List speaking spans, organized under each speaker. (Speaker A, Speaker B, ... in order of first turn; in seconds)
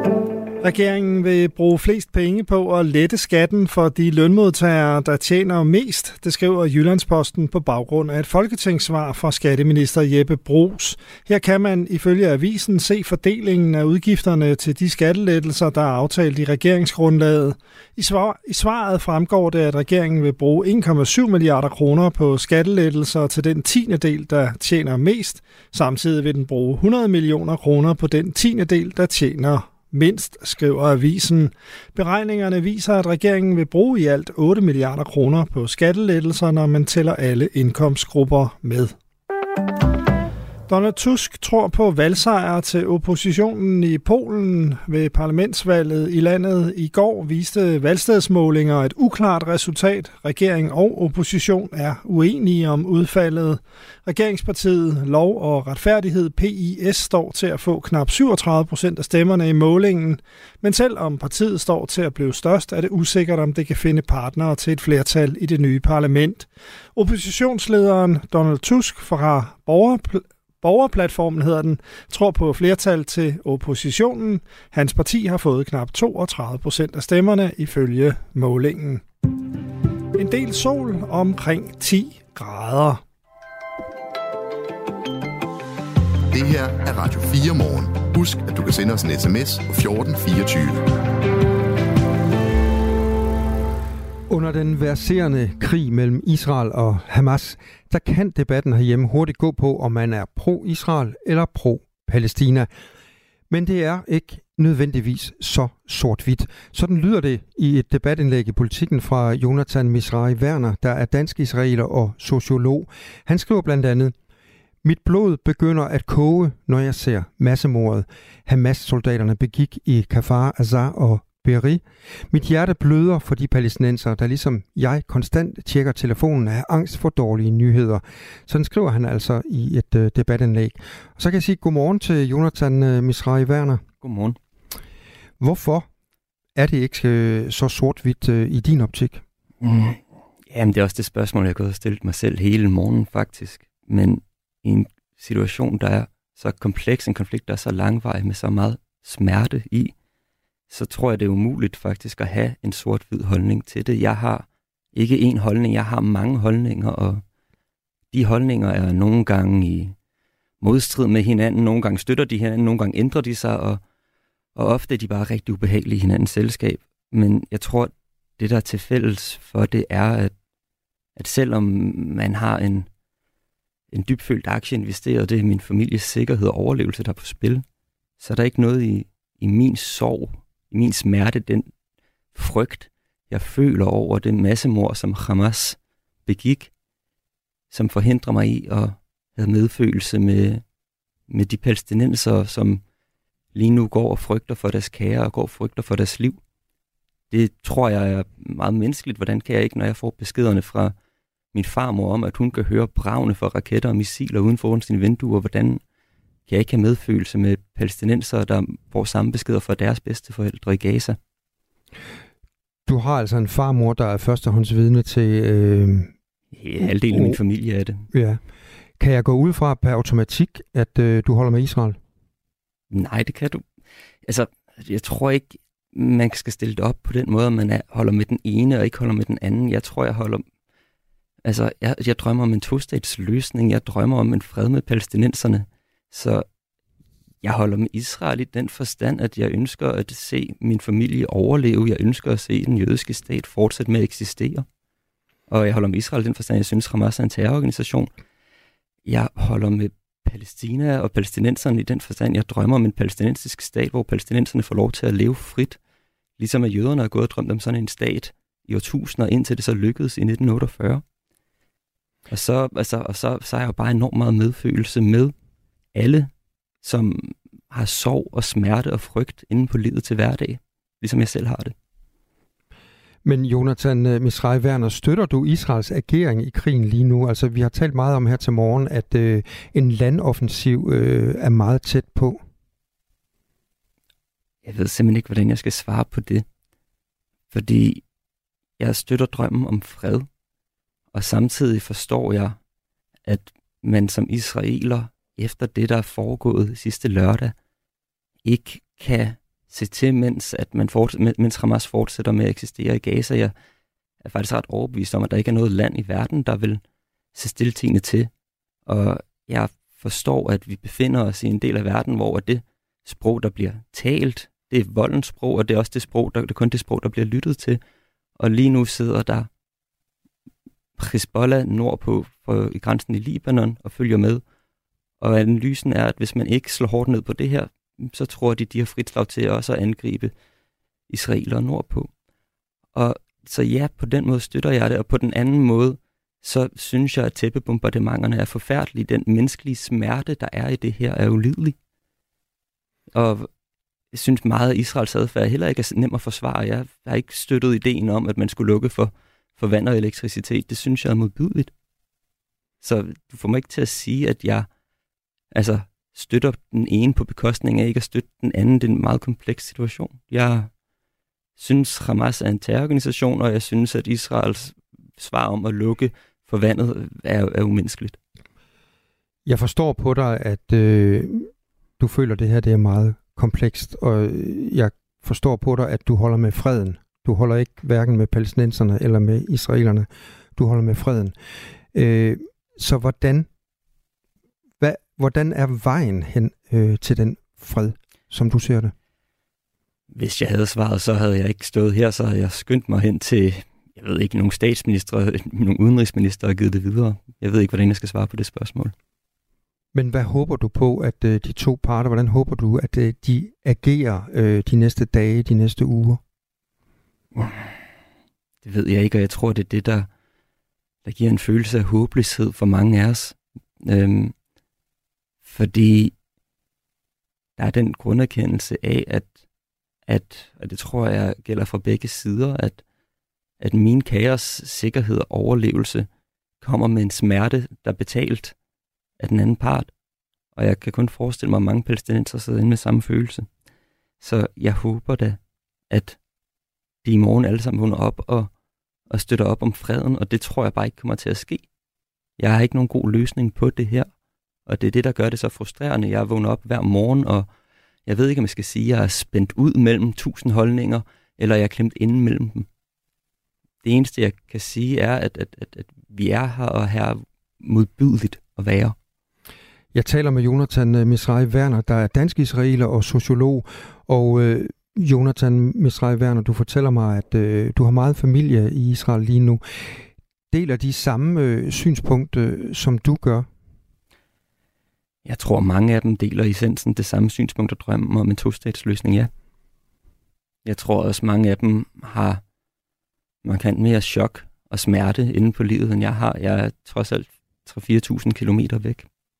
Speaker A: 0.6-38.9, 40.7-79.0, 80.2-83.0
Speaker B: 86.3-90.8
Speaker C: 94.3-102.7, 103.5-114.1, 114.8-133.8, 135.4-135.9, 136.6-139.2, 212.8-216.1, 216.8-217.4, 218.1-218.4, 219.0-222.0, 273.2-282.4, 369.4-381.3, 381.9-383.5, 384.8-388.9, 399.9-406.2, 459.9-473.5
Speaker D: 134.0-134.4, 139.6-149.9, 150.7-157.2, 158.1-159.9, 160.6-163.8, 164.6-170.3, 171.2-172.9, 173.9-177.6, 178.2-181.7, 182.3-186.7, 187.7-190.6, 191.3-192.8, 193.5-196.4, 197.3-200.9, 201.5-205.8, 206.5-211.2, 216.5-218.1, 222.9-223.6, 224.2-230.4, 231.4-236.4, 237.4-244.7, 245.5-248.1, 249.1-255.8, 256.4-261.0, 262.3-265.3, 265.9-266.3, 266.8-271.7, 284.6-286.4, 287.5-288.0, 288.8-290.3, 291.1-292.6, 293.2-297.5, 298.4-303.5, 304.2-306.8, 307.3-308.3, 308.9-317.8, 318.4-319.5, 321.0-324.4, 325.2-330.3, 331.1-332.1, 332.9-341.8, 343.1-343.5, 344.1-351.7, 352.8-354.7, 355.5-360.7, 361.6-368.2, 390.1-398.9, 407.3-407.7, 408.6-410.1, 411.0-414.3, 415.4-416.1, 417.6-419.3, 420.1-422.8, 423.6-426.1, 426.6-428.6, 429.2-429.9, 430.5-433.5, 434.2-436.2, 437.0-438.5, 439.1-441.6, 442.4-444.1, 444.6-447.5, 448.1-452.7, 453.8-458.9, 475.2-479.3, 480.6-482.4, 483.4-489.1